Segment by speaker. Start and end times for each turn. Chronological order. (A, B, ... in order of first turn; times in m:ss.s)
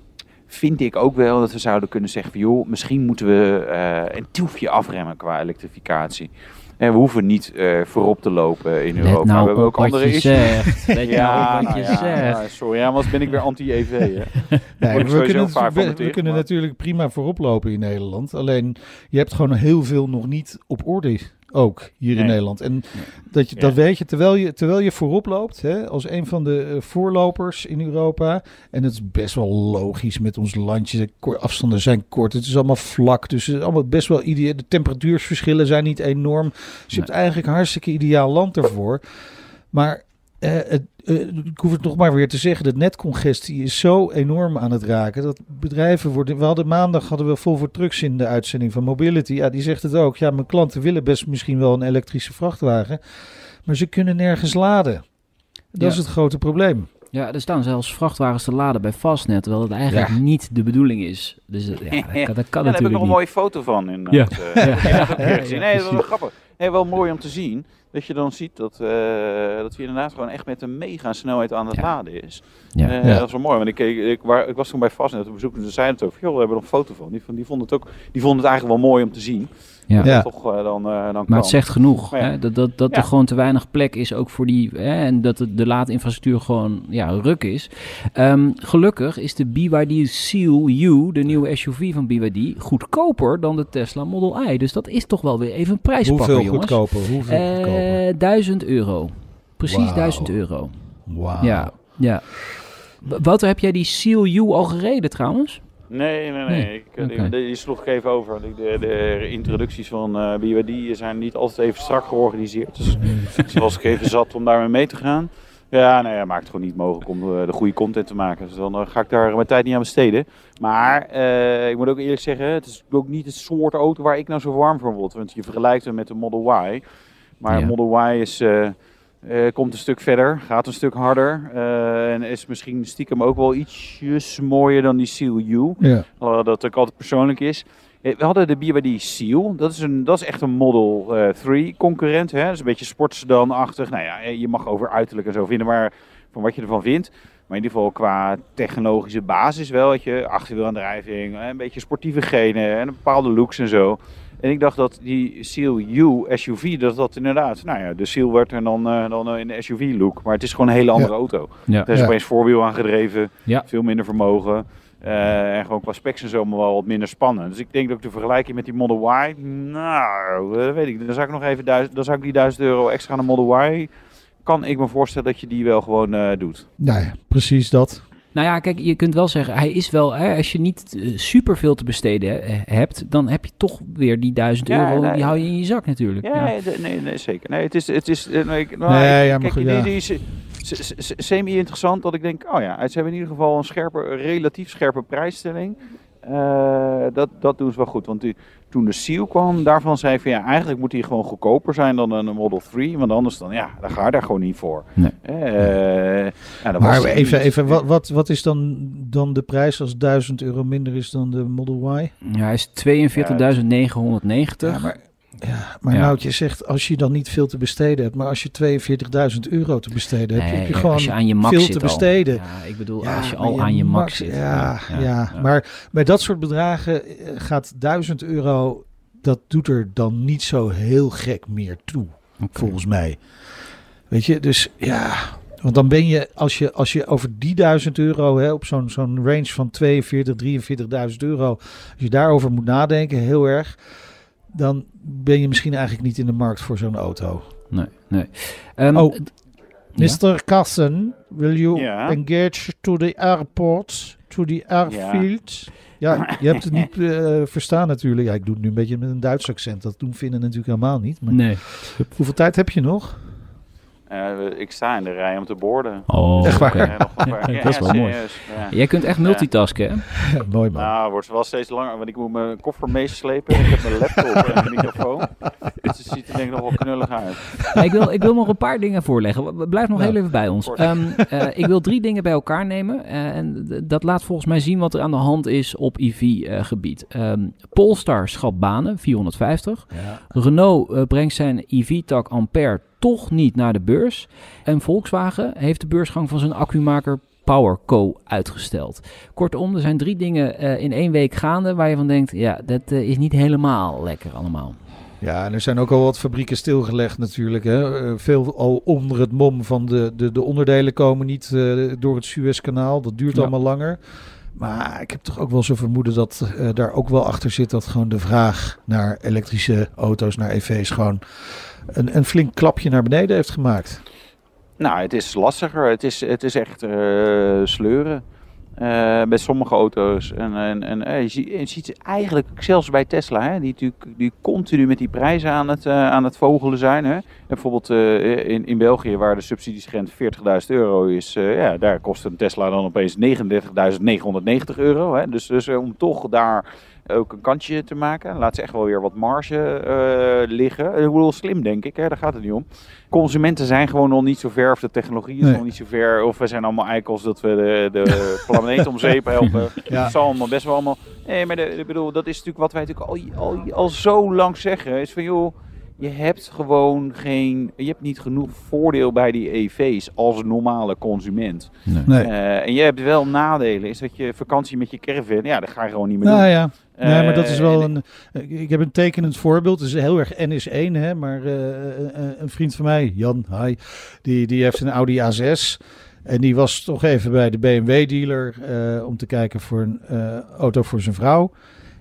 0:00.5-0:16.4 A
0:09.0-0:12.5 B
0:11.1-0:12.3 C
0:14.8-0:39.0 C
0:39.7-0:53.0 C
0:53.6-0:55.0 C
0:55.7-0:56.9 C
0:57.1-1:03.2 B
0:59.9-1:00.2 C
1:01.9-1:23.1 A
1:04.1-1:06.0 B
1:04.6-1:06.0 C
1:20.0-1:20.3 C
1:21.3-1:45.8 B
1:36.0-1:38.0 C
1:39.6-1:42.0 C
1:45.9-2:06.8 A
1:46.5-1:47.3 B
1:53.0-1:53.4 B
2:07.4-2:53.9 A
2:15.8-2:16.0 C
2:41.9-2:42.1 C
2:54.4-2:56.7 A
2:56.8-2:58.0 C
2:58.3-3:06.5 B
3:04.7-3:05.4 A
3:06.2-3:27.8 A
3:08.9-3:09.9 C
3:26.8-3:32.1 C
3:32.2-3:35.4 B
3:33.1-3:33.5 A
3:34.6-3:53.5 C
3:40.4-3:45.5 B
3:52.4-3:52.8 B
3:54.1-4:04.0 C
4:04.5-4:07.5 C
4:07.7-4:09.4 B
4:08.9-4:23.4 C
4:11.7-4:12.2 A
4:14.9-4:15.7 A
4:21.3-4:22.1 B
4:24.1-4:29.5 A
4:26.1-4:30.0 B
4:26.4-4:27.0 C
4:30.3-4:30.9 C
4:30.7-4:37.7 A
4:37.7-5:04.8 B
4:39.9-4:40.3 C
4:49.9-4:50.2 C
5:05.2-5:24.0 C
5:24.8-5:28.2 A
5:28.8-6:17.9 A
5:59.8-6:00.2 C
6:12.0-6:12.3 C
6:16.2-6:31.5 C